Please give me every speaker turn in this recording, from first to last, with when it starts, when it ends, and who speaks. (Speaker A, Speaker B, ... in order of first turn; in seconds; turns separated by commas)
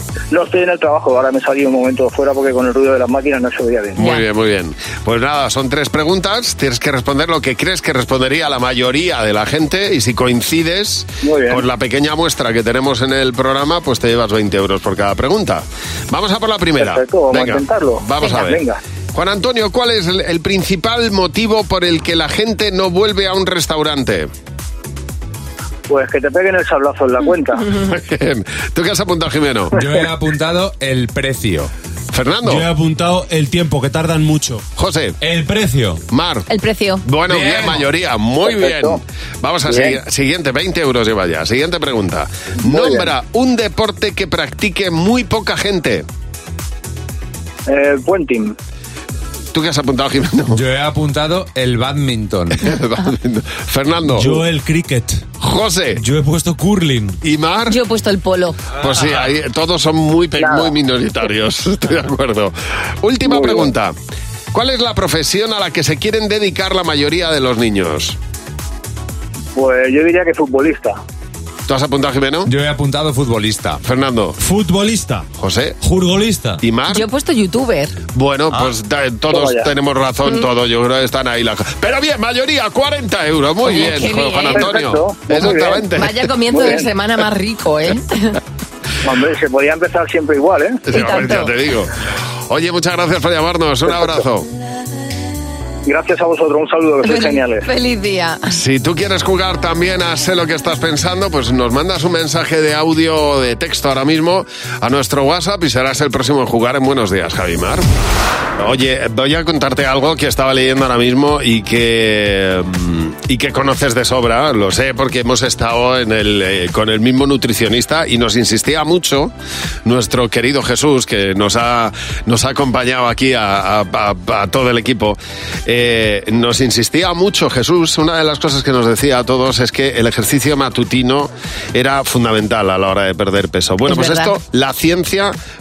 Speaker A: 0.3-4.0, Speaker B: 4.0-18.6, Speaker C: 4.0-4.2, Speaker A: 11.2-11.6, Speaker A: 16.8-18.8, Speaker B: 19.1-24.3, Speaker A: 25.9-27.6, Speaker B: 27.7-29.8, Speaker D: 29.7-31.7, Speaker B: 32.1-32.7, Speaker E: 32.5-34.6, Speaker B: 34.8-35.2, Speaker E: 35.2-36.0, Speaker B: 36.1-36.5, Speaker C: 36.5-37.0, Speaker B: 37.0-46.0, Speaker D: 37.3-37.9, Speaker A: 47.7-48.5, Speaker B: 49.5-50.6, Speaker D: 50.5-52.7, Speaker B: 52.6-54.4, Speaker E: 54.2-55.2, Speaker B: 55.4-56.0, Speaker E: 56.0-57.2, Speaker B: 57.2-57.8, Speaker C: 57.7-58.6, Speaker B: 58.8-64.0, Speaker A: 60.4-60.7, Speaker A: 63.3-63.7, Speaker B: 64.5-68.2, Speaker A: 69.6-71.0, Speaker B: 71.7-72.5, Speaker D: 72.5-73.8, Speaker B: 73.8-74.4, Speaker E: 74.4-75.2, Speaker B: 75.4-75.8, Speaker E: 75.8-76.6, Speaker B: 76.6-77.0, Speaker C: 76.9-78.0, Speaker B: 78.1-86.2, Speaker A: 79.3-79.7, Speaker C: 83.6-84.8, Speaker A: 84.6-85.8, Speaker C: 86.0-88.4, Speaker A: 86.6-86.9, Speaker A: 89.0-90.8, Speaker B: 90.9-91.9, Speaker C: 90.9-91.5, Speaker B: 92.5-94.5, Speaker A: 95.9-97.7, Speaker C: 97.0-98.5, Speaker B: 98.5-107.9, Speaker B: 108.6-119.3, Speaker B: 119.8-135.3, Speaker C: 133.9-134.3